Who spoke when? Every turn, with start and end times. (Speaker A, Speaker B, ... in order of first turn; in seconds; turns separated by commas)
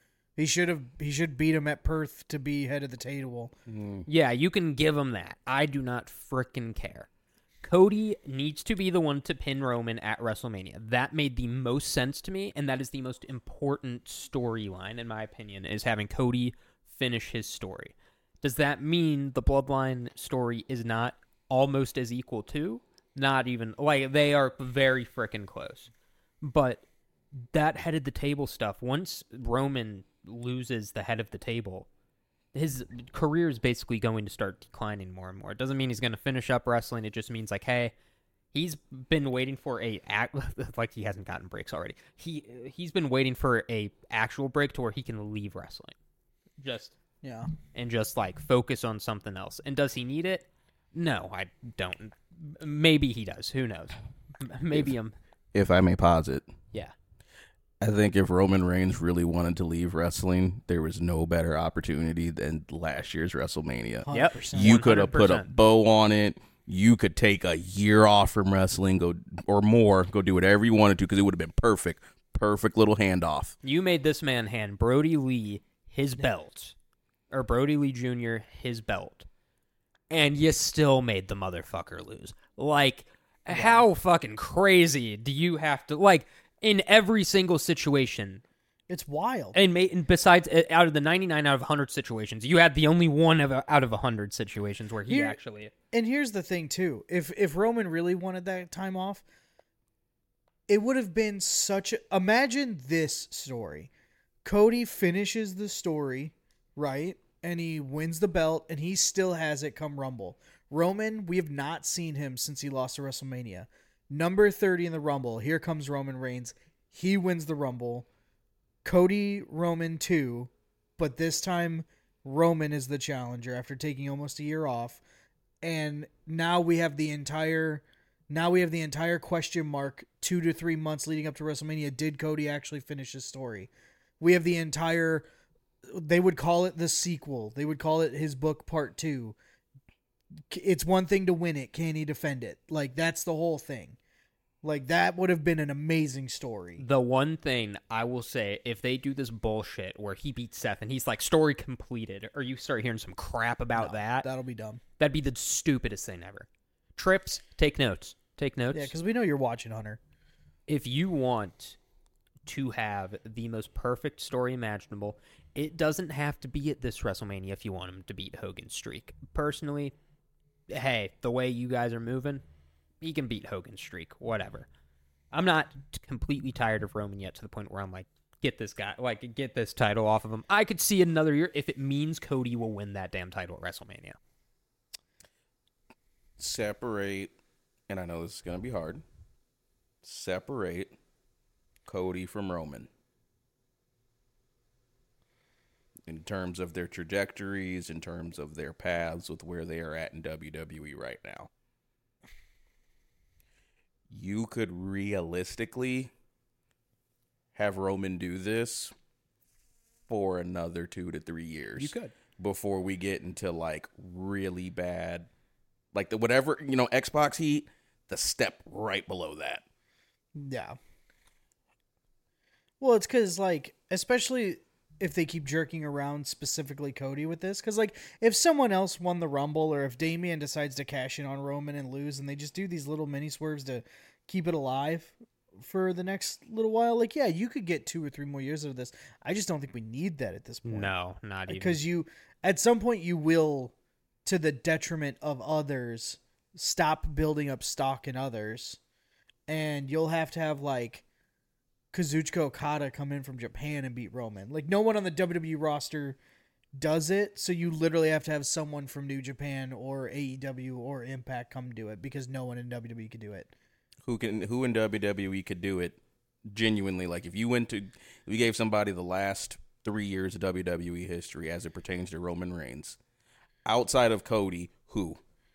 Speaker A: 0.4-3.5, Speaker B: 3.7-4.1, Speaker C: 4.1-7.1, Speaker C: 7.6-26.8, Speaker C: 27.4-31.9, Speaker C: 32.5-37.9, Speaker C: 38.5-46.0, Speaker C: 46.6-47.0, Speaker A: 47.2-47.5, Speaker C: 47.7-55.1, Speaker B: 55.5-56.5, Speaker B: 57.8-73.5, Speaker A: 64.0-64.8, Speaker C: 64.1-65.5, Speaker C: 73.6-76.8, Speaker C: 77.3-79.3, Speaker C: 80.1-88.4, Speaker A: 83.5-83.8, Speaker A: 88.9-89.6, Speaker C: 89.5-95.7, Speaker A: 95.1-95.4, Speaker A: 95.9-99.2, Speaker A: 100.7-103.9, Speaker A: 104.4-118.1, Speaker A: 118.8-125.0, Speaker A: 125.6-135.3, Speaker A: 135.8-139.4, Speaker A: 140.4-144.0, Speaker A: 144.6-146.8, Speaker C: 146.8-154.3, Speaker A: 153.8-154.8, Speaker C: 155.0-158.9, Speaker A: 158.7-160.0, Speaker C: 160.7-161.8, Speaker C: 162.5-169.9, Speaker C: 170.7-172.4, Speaker C: 173.0-174.7, Speaker C: 175.3-184.2, Speaker B: 186.4-187.3, Speaker B: 187.9-189.0, Speaker B: 190.0-190.9, Speaker B: 191.9-192.9, Speaker B: 196.1-201.5, Speaker B: 204.1-206.1, Speaker B: 207.6-208.9, Speaker B: 210.1-215.3, Speaker A: 211.8-212.1, Speaker B: 215.9-219.6, Speaker A: 220.3-220.8, Speaker A: 222.8-240.9, Speaker C: 240.7-241.8, Speaker A: 241.5-243.7, Speaker A: 244.2-248.8, Speaker A: 249.5-251.0, Speaker A: 251.9-256.2, Speaker A: 256.8-263.5, Speaker B: 264.1-266.0, Speaker B: 266.5-273.0, Speaker B: 273.6-275.2